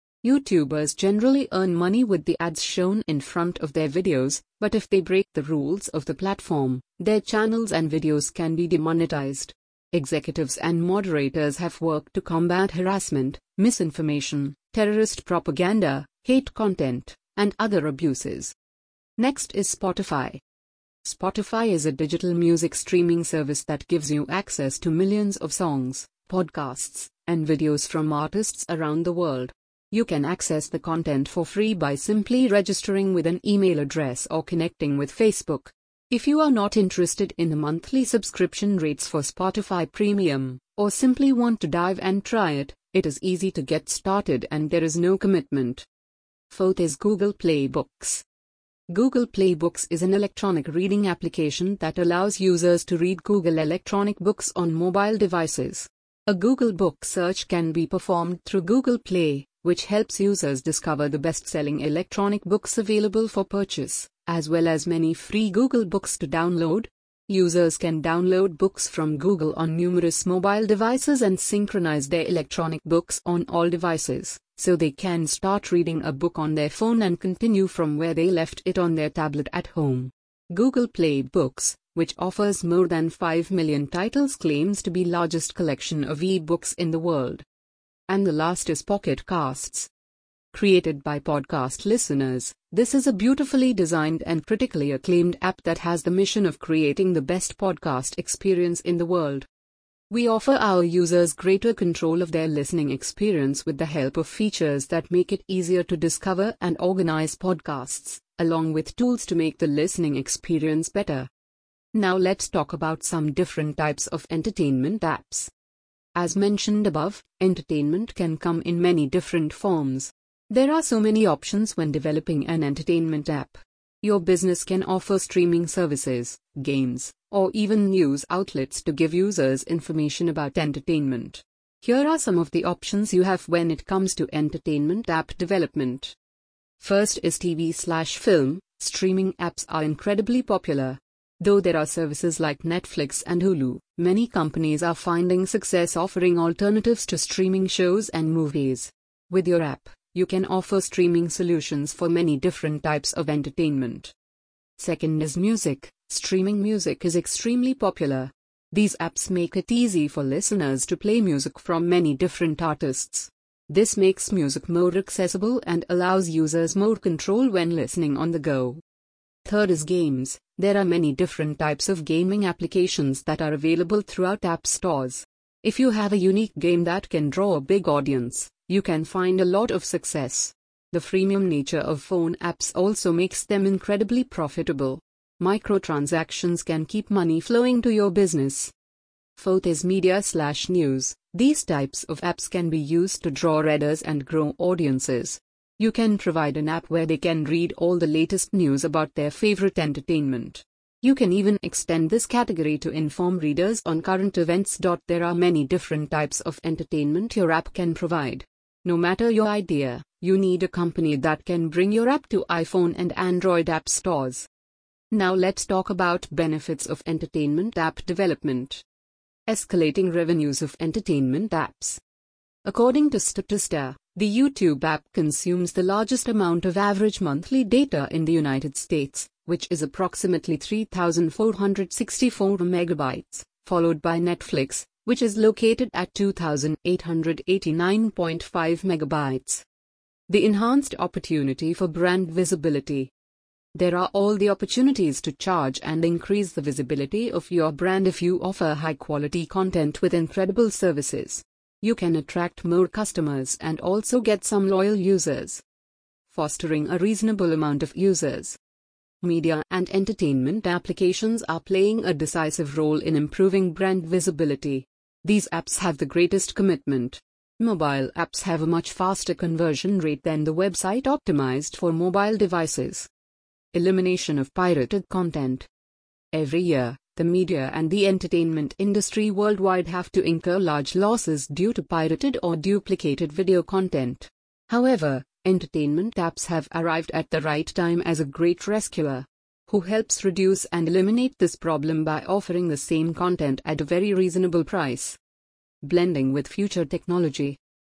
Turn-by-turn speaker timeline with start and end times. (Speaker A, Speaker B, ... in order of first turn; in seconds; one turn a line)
Speaker A: 0.2-18.5
Speaker A: 19.2-20.4
Speaker A: 21.0-45.8
Speaker A: 46.5-48.2
Speaker A: 48.9-87.4
Speaker A: 88.1-89.9
Speaker A: 90.5-99.5
Speaker A: 100.1-111.3
Speaker A: 111.9-115.5
Speaker A: 116.1-136.1
Speaker A: 136.8-154.1
Speaker A: 154.8-168.8
Speaker A: 169.4-188.7
Speaker A: 189.4-214.5
Speaker A: 215.1-218.8
Speaker A: 219.5-222.0
Speaker A: 222.6-239.6
Speaker A: 240.3-243.1
Speaker A: 243.7-255.6
Speaker A: 256.3-258.6
Speaker A: 259.2-273.1
Speaker A: 273.7-275.7
Speaker A: 276.3-295.2
Speaker A: 295.8-297.6